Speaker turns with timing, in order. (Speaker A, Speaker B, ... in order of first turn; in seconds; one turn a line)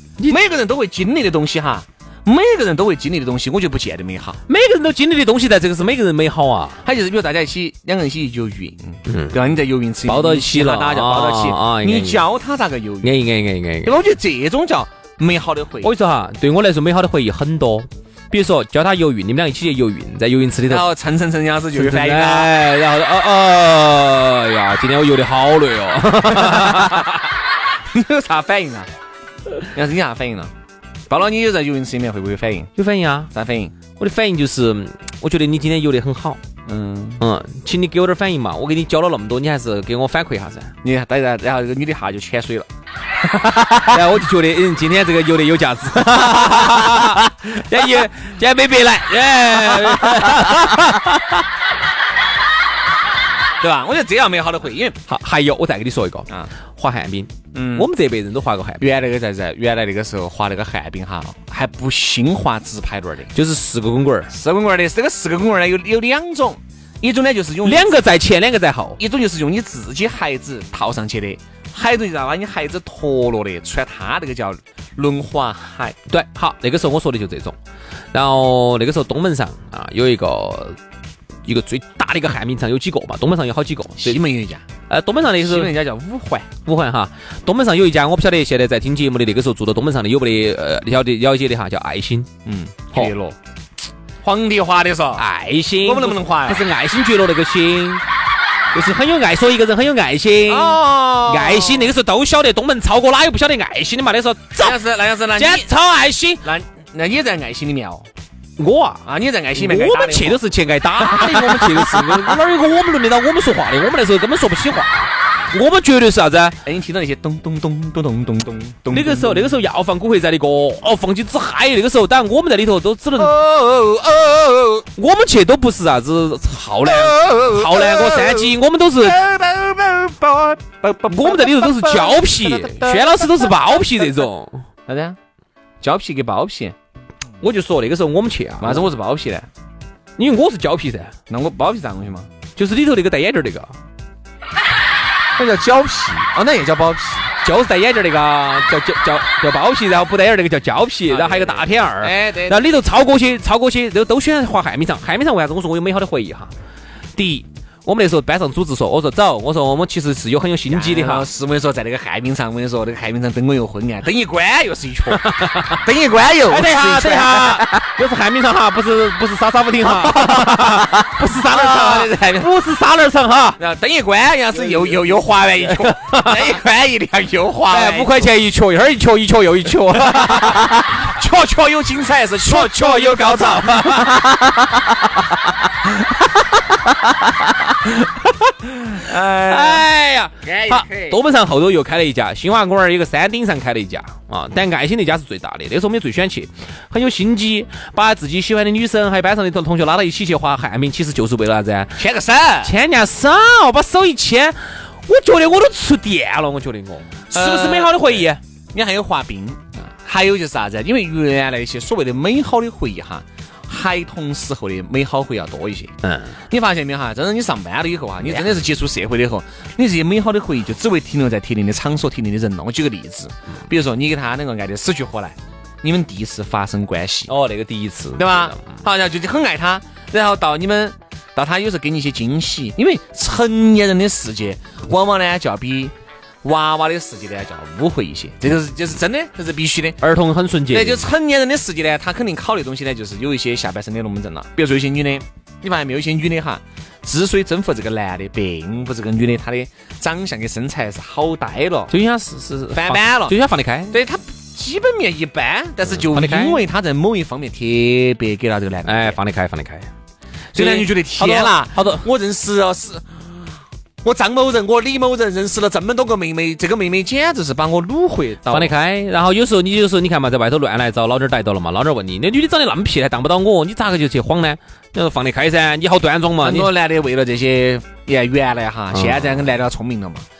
Speaker A: 0.3-4.4
Speaker B: 4.5-6.8
Speaker A: 6.8-13.2
Speaker B: 9.1-9.4
Speaker B: 10.1-12.2
Speaker B: 13.0-13.9
Speaker A: 13.8-15.9
Speaker B: 15.8-20.9
Speaker A: 20.7-22.5
Speaker B: 21.7-27.2
Speaker A: 26.4-27.0
Speaker A: 27.9-28.9
Speaker A: 29.7-30.5
Speaker A: 31.1-32.7
Speaker B: 32.8-33.3
Speaker A: 33.3-33.7
Speaker B: 34.0-36.4
Speaker A: 36.6-37.2
Speaker B: 37.2-40.7
Speaker A: 40.8-42.7
Speaker A: 43.2-44.0
Speaker B: 43.9-51.4
Speaker A: 46.4-47.2
Speaker A: 49.6-50.8
Speaker A: 53.6-55.0
Speaker B: 55.1-58.8
Speaker A: 57.5-57.9
Speaker A: 58.8-63.3
Speaker B: 63.3-64.3
Speaker A: 64.3-68.0
Speaker B: 67.6-69.0
Speaker A: 69.0-76.0
Speaker B: 76.1-77.5
Speaker B: 78.1-80.8
Speaker B: 81.4-84.2
Speaker A: 84.0-84.6
Speaker B: 84.9-85.7
Speaker A: 85.4-86.5
Speaker B: 86.6-92.3
Speaker A: 92.4-93.4
Speaker A: 94.2-95.2
Speaker B: 95.2-98.0
Speaker A: 95.8-96.7
Speaker B: 98.7-104.8
Speaker A: 100.5-101.9
Speaker A: 104.6-105.7
Speaker B: 105.3-106.5
Speaker A: 106.4-108.1
Speaker B: 108.6-109.0
Speaker A: 109.0-110.4
Speaker B: 109.5-116.5
Speaker A: 111.0-112.4
Speaker A: 116.6-119.5
Speaker B: 118.9-123.3
Speaker A: 123.2-124.8
Speaker B: 125.0-129.2
Speaker A: 126.8-134.1
Speaker B: 131.1-134.7
Speaker A: 134.9-135.2
Speaker A: 135.8-136.7
Speaker B: 137.4-138.9
Speaker A: 138.6-139.5
Speaker B: 140.2-141.1
Speaker A: 141.3-142.3
Speaker B: 142.6-143.7
Speaker A: 145.3-147.3
Speaker B: 147.4-156.5
Speaker A: 151.1-152.7
Speaker B: 157.2-161.3
Speaker A: 160.7-167.9
Speaker B: 165.1-165.8
Speaker B: 166.5-173.6
Speaker A: 169.8-172.5
Speaker A: 173.6-178.3
Speaker B: 175.6-176.6
Speaker B: 177.7-181.1
Speaker A: 179.9-184.3
Speaker B: 182.4-185.2
Speaker B: 186.8-187.5
Speaker A: 188.6-189.8
Speaker B: 189.4-202.0
Speaker A: 190.4-191.2
Speaker A: 201.9-202.7
Speaker B: 202.6-208.4
Speaker A: 207.3-215.9
Speaker B: 216.0-216.3
Speaker A: 216.5-227.3
Speaker B: 227.3-228.8
Speaker A: 228.2-240.0
Speaker B: 240.0-241.1
Speaker A: 240.7-251.9
Speaker B: 251.9-254.0
Speaker A: 252.7-253.4
Speaker A: 253.9-259.2
Speaker B: 256.0-256.6
Speaker B: 258.8-259.9
Speaker B: 260.5-262.1
Speaker A: 260.5-263.3
Speaker A: 264.0-268.7
Speaker B: 268.5-276.7
Speaker A: 276.4-280.2
Speaker B: 278.9-279.4